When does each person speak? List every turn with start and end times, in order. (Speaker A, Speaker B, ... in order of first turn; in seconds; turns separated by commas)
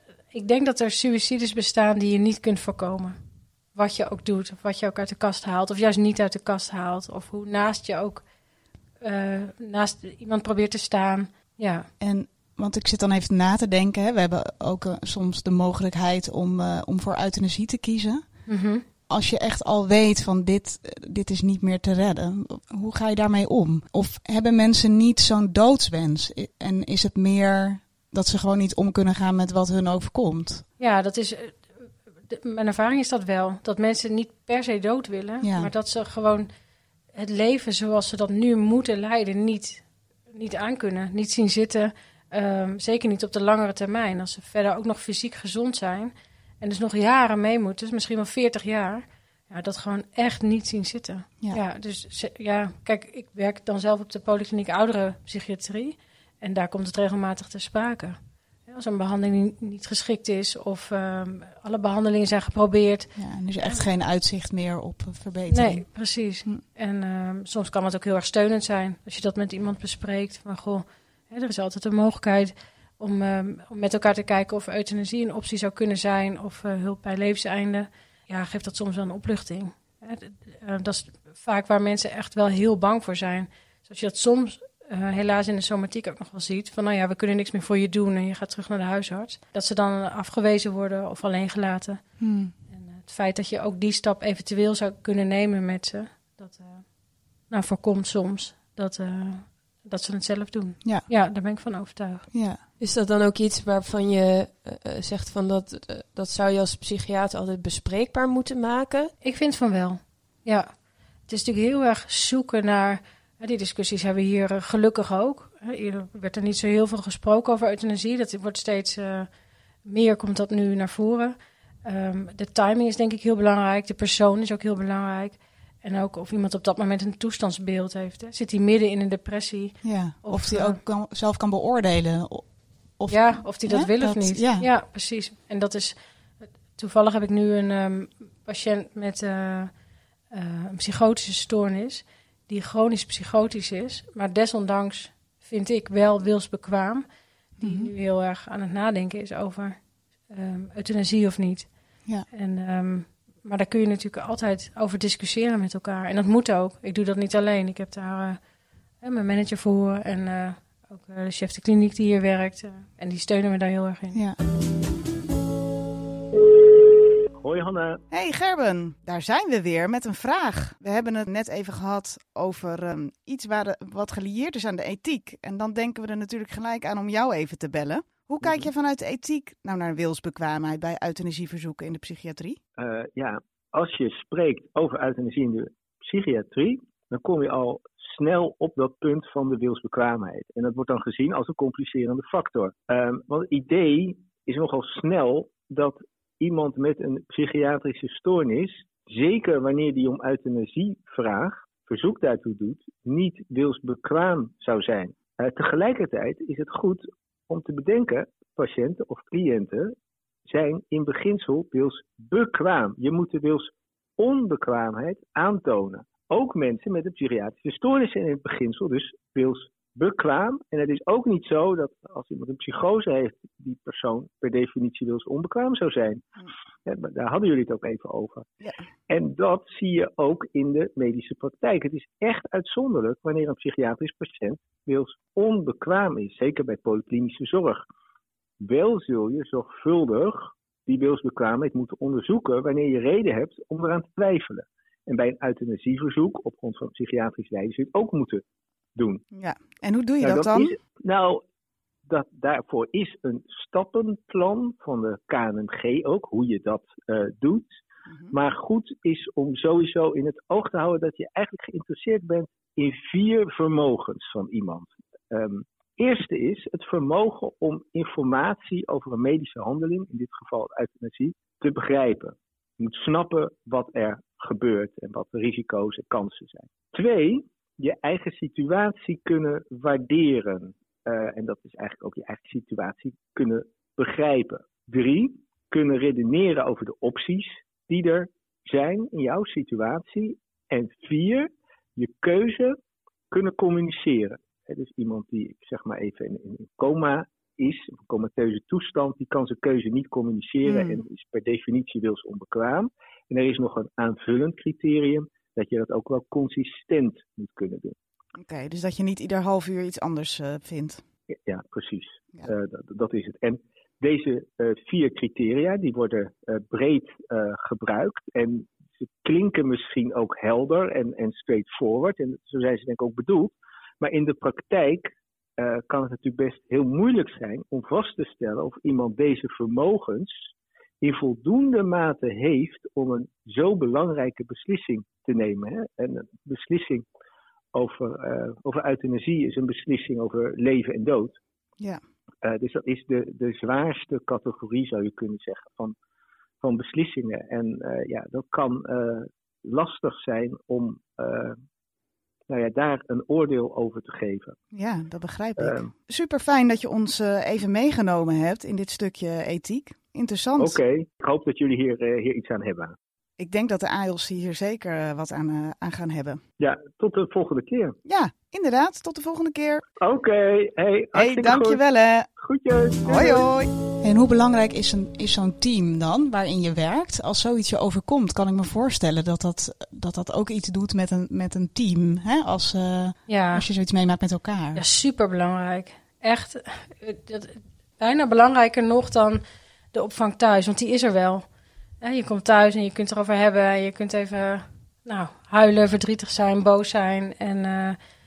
Speaker A: 0.3-3.2, Speaker A: 3.7-8.2, Speaker A: 9.0-11.9, Speaker B: 12.0-18.5, Speaker A: 18.5-18.8, Speaker B: 19.1-30.6, Speaker A: 30.8-31.7, Speaker A: 32.3-36.5, Speaker B: 35.4-35.7, Speaker A: 37.1-63.8, Speaker B: 63.2-65.8, Speaker A: 65.5-92.0, Speaker B: 92.2-92.5, Speaker A: 92.7-96.9, Speaker A: 97.5-102.3, Speaker B: 102.3-102.6, Speaker C: 102.8-109.1, Speaker A: 109.2-110.7, Speaker A: 111.3-119.3, Speaker A: 119.8-130.8, Speaker B: 129.8-134.7, Speaker A: 133.1-136.0, Speaker A: 136.8-139.7, Speaker A: 140.3-147.1, Speaker A: 147.6-151.7, Speaker B: 147.6-147.9, Speaker A: 152.3-158.4, Speaker A: 159.0-164.2, Speaker B: 164.1-164.4, Speaker D: 167.4-168.0, Speaker B: 168.1-182.6, Speaker D: 182.8-209.9, Speaker D: 210.5-228.5, Speaker D: 229.1-237.8, Speaker D: 238.6-248.4, Speaker D: 249.0-249.2, Speaker B: 249.3-250.8, Speaker D: 250.2-251.4, Speaker D: 252.1-257.8, Speaker B: 258.1-258.3, Speaker D: 258.3-292.8, Speaker D: 293.3-308.0, Speaker B: 300.6-301.0, Speaker B: 308.4-311.0, Speaker D: 311.3-325.1, Speaker D: 325.6-330.3, Speaker D: 331.0-337.0, Speaker D: 337.8-341.4, Speaker D: 342.4-345.9, Speaker D: 346.6-351.6, Speaker D: 352.5-354.6, Speaker B: 354.7-360.8, Speaker D: 355.6-355.9, Speaker D: 360.6-362.9, Speaker B: 363.4-366.4, Speaker D: 366.6-368.0, Speaker B: 368.1-369.8, Speaker D: 370.0-371.8, Speaker B: 371.1-372.3, Speaker D: 372.4-373.4, Speaker B: 373.0-384.8, Speaker A: 383.3-383.6, Speaker A: 384.8-389.4, Speaker A: 389.9-391.4, Speaker A: 392.0-398.0